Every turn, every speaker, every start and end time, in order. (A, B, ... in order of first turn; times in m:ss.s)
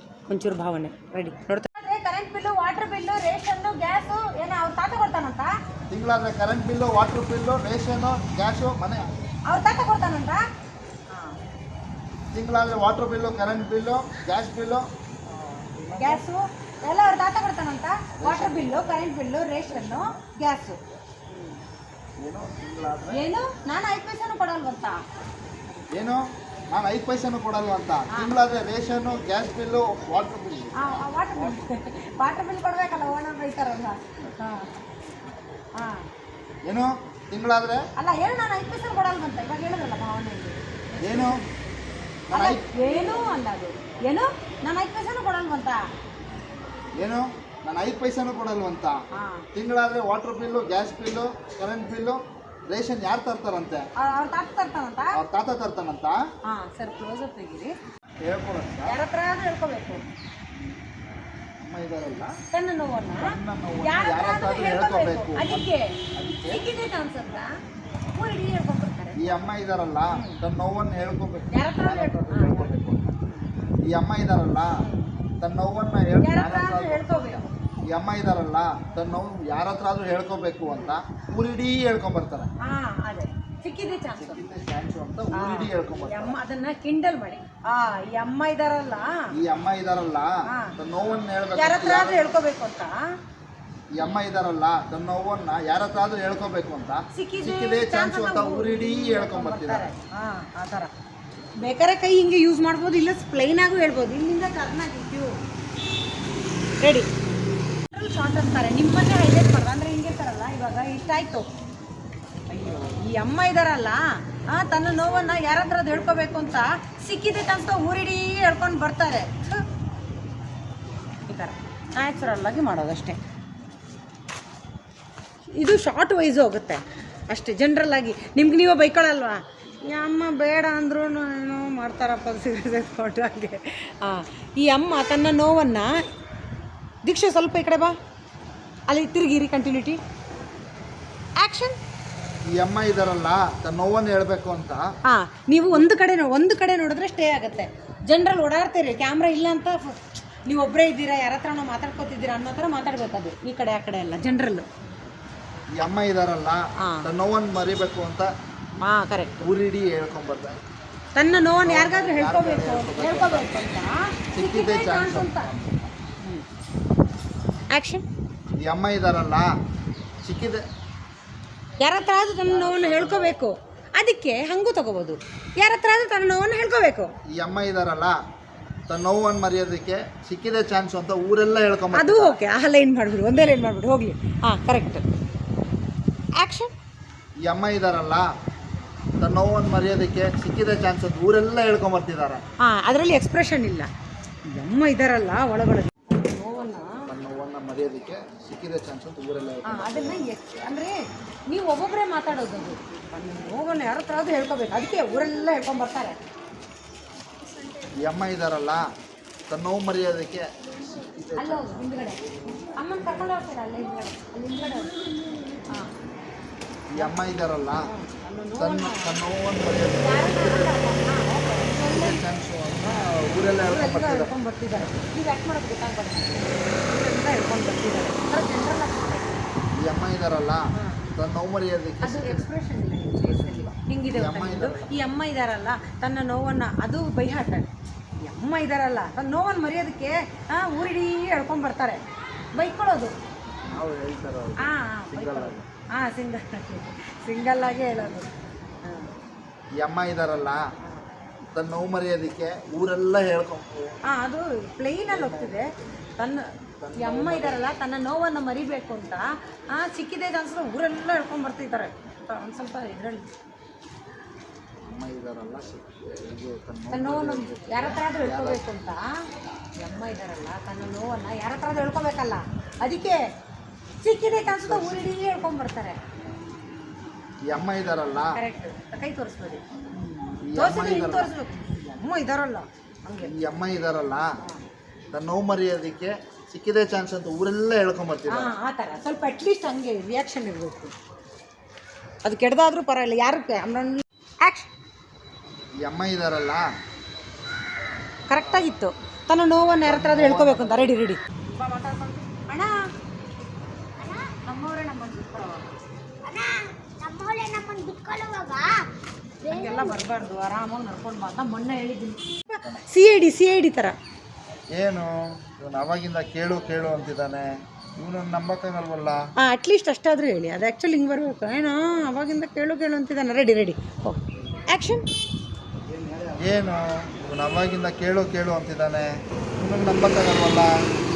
0:00.3-0:05.5 A
0:05.9-0:09.1 B
0:09.5-0:10.4 A
0:11.1-0:11.4 A
0:12.3-0:16.2 B
0:16.0-0:20.8 A
0:18.2-0:19.1 B
0:19.6-0:20.2 B
0:21.3-0:21.6 A
0:22.2-0:23.2 B
0:23.1-0:25.0 A
0:25.9-0:31.6 B
0:30.8-0:34.7 A
0:35.8-0:36.0 A
0:36.6-0:37.8 B
0:38.0-0:41.5 A
0:41.0-0:41.4 B
0:42.3-0:43.4 B
0:42.3-0:45.8 A
0:47.0-0:49.0 B
0:49.1-0:49.4 A
0:49.5-0:53.8 B
0:54.0-0:55.2 A
0:55.1-0:56.2 B
0:56.4-0:57.8 A
0:58.2-0:59.0 B
0:58.8-1:00.0 A
1:01.6-1:02.4 B
1:02.5-1:07.6 A
1:03.2-1:06.6 B
1:08.1-1:09.4 A
1:09.2-1:13.1 B
1:10.1-1:10.4 A
1:11.5-1:12.7 A
1:13.2-1:13.7 A
1:13.8-1:14.8 B
1:14.8-1:15.1 A
1:15.4-1:22.5 B
1:16.2-1:17.5 A
1:22.6-1:24.4 A
1:24.2-1:26.4 B
1:25.3-1:29.3 A
1:29.4-1:32.4 B
1:30.5-1:30.8 A
1:31.5-1:33.0 A
1:33.9-1:39.9 B
1:37.1-1:40.9 A
1:41.6-1:45.4 A
1:46.8-1:47.1 A
1:47.9-1:51.5 A
1:52.5-1:59.6 A
2:01.3-2:03.2 A
2:05.5-2:16.0 A
2:17.0-2:18.0 A
2:18.9-2:20.0 A
2:21.4-2:21.8 A
2:22.4-2:24.9 B
2:25.0-2:34.7 A
2:35.7-2:38.3 B
2:36.8-2:37.1 A
2:38.8-2:39.3 A
2:39.4-2:40.6 B
2:41.1-2:45.5 A
2:41.6-2:43.8 B
2:44.3-2:45.9 B
2:47.7-2:48.0 A
2:48.6-2:49.5 B
2:50.2-2:50.6 B
2:51.8-2:57.1 A
2:52.4-2:53.4 B
2:57.3-2:58.2 B
2:58.9-3:02.4 B
3:01.9-3:05.0 A
3:06.4-3:06.7 A
3:07.4-3:08.3 B
3:09.2-3:12.4 B
3:12.6-3:13.9 A
3:14.4-3:17.1 A
3:17.0-3:20.3 B
3:19.6-3:21.0 A
3:21.5-3:26.2 A
3:27.6-3:27.9 C
3:27.9-3:28.8 B
3:29.5-3:32.0 B
3:31.4-3:34.9 A
3:34.7-3:35.7 C
3:36.9-3:37.9 B
3:37.8-3:39.1 A
3:38.6-3:40.8 B
3:40.0-3:42.2 A
3:41.7-3:44.3 B
3:43.6-3:49.3 A
3:49.8-3:52.5 B
3:50.8-3:51.0 A
3:52.0-4:02.0 A
3:53.2-3:54.9 B
4:02.5-4:03.1 A
4:03.6-4:05.7 B
4:04.6-4:08.3 A
4:08.8-4:09.1 A
4:09.8-4:10.7 B
4:11.4-4:13.9 B
4:14.0-4:23.2 A
4:15.1-4:15.7 B
4:16.8-4:17.6 B
4:24.8-4:28.6 B
4:26.9-4:29.1 A
4:29.8-4:33.2 A
4:34.0-4:36.0 A
4:34.4-4:35.1 B
4:37.5-4:38.4 B
4:38.3-4:43.3 A
4:40.4-4:41.3 B
4:43.2-4:44.3 B
4:45.1-4:48.5 B
4:48.3-4:50.9 A
4:52.2-4:54.7 A
4:55.8-4:56.7 B
4:58.3-5:02.8 A
4:59.8-5:00.9 B
5:04.0-5:04.3 C
5:04.4-5:05.6 A
5:06.2-5:08.8 C
5:09.4-5:10.0 C
5:09.5-5:14.0 A
5:14.7-5:19.2 B
5:19.4-5:25.0 A
5:25.9-5:30.7 B